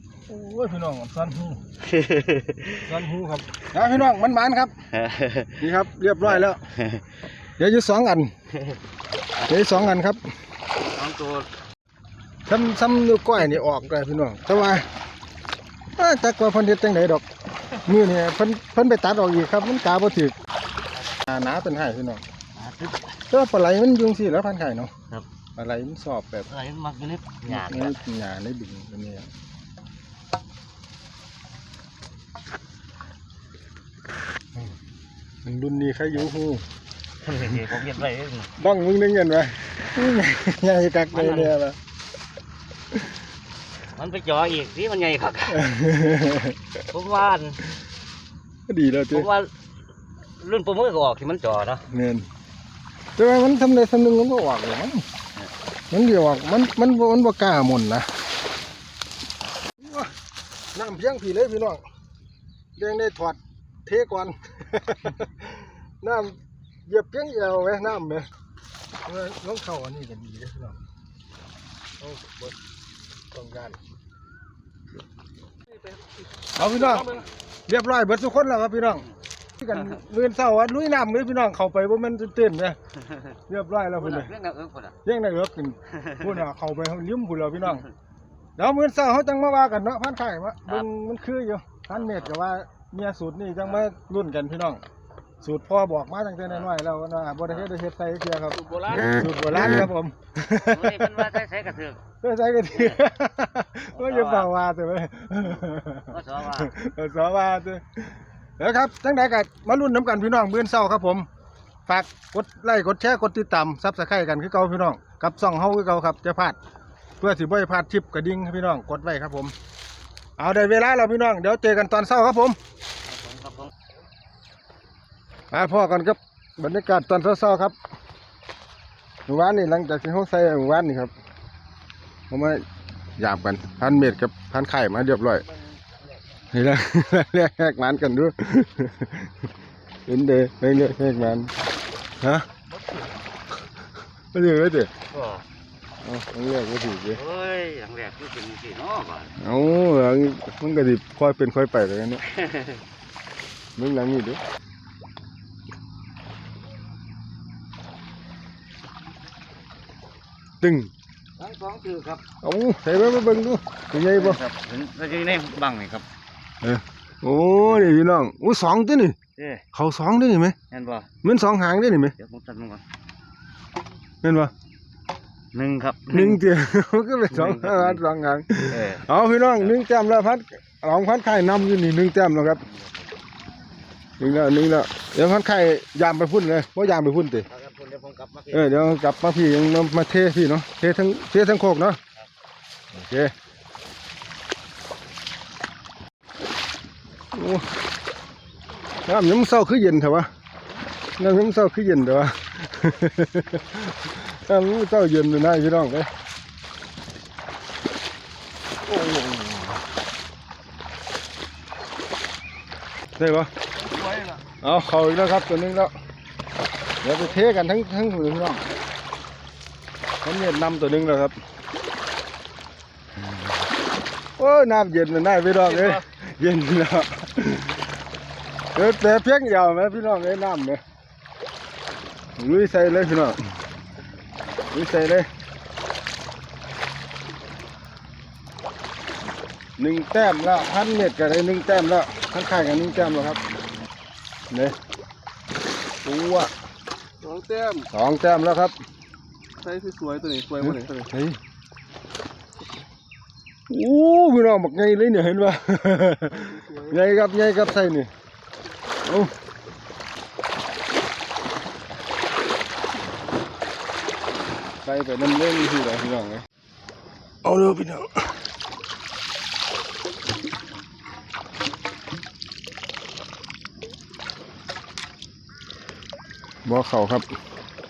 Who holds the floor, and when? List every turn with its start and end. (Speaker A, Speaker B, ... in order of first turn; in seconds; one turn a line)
Speaker A: 0.3-1.6
Speaker B: 1.8-2.9
Speaker A: 2.8-4.7
Speaker B: 4.9-5.6
Speaker A: 5.6-6.6
Speaker B: 6.2-7.0
Speaker A: 7.6-8.3
Speaker A: 9.5-10.2
Speaker B: 10.9-11.5
Speaker A: 12.5-14.9
Speaker A: 16.0-17.2
Speaker A: 17.8-20.3
Speaker A: 21.2-22.2
Speaker B: 22.6-23.0
Speaker A: 23.3-24.9
Speaker A: 25.6-26.5
Speaker B: 26.5-28.0
Speaker A: 27.5-29.3
Speaker A: 35.4-36.6
Speaker B: 37.2-38.5
Speaker A: 38.6-41.8
Speaker B: 41.1-41.5
Speaker B: 43.9-45.7
Speaker A: 45.5-46.6
Speaker B: 46.9-47.6
Speaker A: 48.7-49.3
Speaker B: 49.1-49.5
Speaker B: 50.4-51.8
Speaker A: 51.9-52.3
Speaker A: 53.2-55.0
Speaker A: 55.9-58.1
Speaker A: 59.8-60.1
Speaker A: 60.7-61.8
Speaker A: 62.8-66.3
Speaker A: 66.9-68.3
Speaker A: 69.0-70.8
Speaker A: 72.0-72.5
Speaker A: 73.3-73.8
Speaker C: 75.7-77.2
Speaker A: 76.5-79.0
Speaker A: 79.6-82.8
Speaker A: 83.5-84.3
Speaker B: 83.9-85.0
Speaker A: 85.0-87.8
Speaker B: 86.0-86.4
Speaker A: 88.6-94.8
Speaker B: 91.9-92.3
Speaker A: 95.4-101.3
Speaker B: 96.4-96.7
Speaker C: 98.5-99.1
Speaker B: 99.1-99.9
Speaker B: 100.5-102.0
Speaker A: 102.2-108.0
Speaker B: 102.7-103.0
Speaker B: 103.9-104.5
Speaker B: 105.5-106.7
Speaker A: 108.6-111.3
Speaker A: 111.9-116.6
Speaker A: 117.2-119.5
Speaker A: 120.4-122.6
Speaker B: 123.1-123.7
Speaker A: 125.5-127.7
Speaker A: 129.3-131.1
Speaker A: 132.3-132.6
Speaker A: 133.2-135.4
Speaker A: 136.5-139.3
Speaker A: 140.1-141.5
Speaker A: 142.2-142.5
Speaker C: 142.7-143.2
Speaker A: 144.3-144.9
Speaker B: 145.1-145.4
Speaker A: 146.0-147.2
Speaker B: 147.1-149.3
Speaker A: 149.4-152.2
Speaker A: 153.8-154.4
Speaker A: 160.6-160.9
Speaker B: 161.4-162.2
Speaker A: 162.4-164.4
Speaker B: 164.1-166.0
Speaker A: 166.6-169.2
Speaker B: 167.6-167.9
Speaker B: 169.4-169.6
Speaker A: 169.7-170.6
Speaker B: 170.7-171.1
Speaker A: 171.2-172.1
Speaker B: 172.2-172.8
Speaker A: 174.2-174.5
Speaker B: 175.5-176.4
Speaker A: 176.1-182.6
Speaker B: 177.6-178.0
Speaker B: 178.7-179.1
Speaker B: 182.7-183.1
Speaker A: 184.2-187.5
Speaker B: 187.5-188.8
Speaker A: 188.5-192.0
Speaker A: 192.9-193.3
Speaker A: 197.3-197.6
Speaker A: 199.1-200.3
Speaker A: 201.2-206.1
Speaker A: 213.2-213.5
Speaker C: 213.7-214.4
Speaker A: 214.6-215.9
Speaker A: 217.0-218.6
Speaker A: 220.2-221.3
Speaker A: 224.4-227.8
Speaker C: 225.7-226.0
Speaker A: 228.7-230.8
Speaker A: 232.4-233.4
Speaker A: 234.7-235.3
Speaker A: 239.8-243.4
Speaker A: 244.5-244.8
Speaker A: 246.0-246.5
Speaker C: 247.2-247.9
Speaker A: 247.9-248.7
Speaker C: 249.6-251.1
Speaker A: 250.6-251.4
Speaker A: 253.7-258.1
Speaker C: 256.3-257.0
Speaker A: 259.0-259.3
Speaker A: 264.8-266.4
Speaker A: 267.4-268.2
Speaker A: 276.6-277.2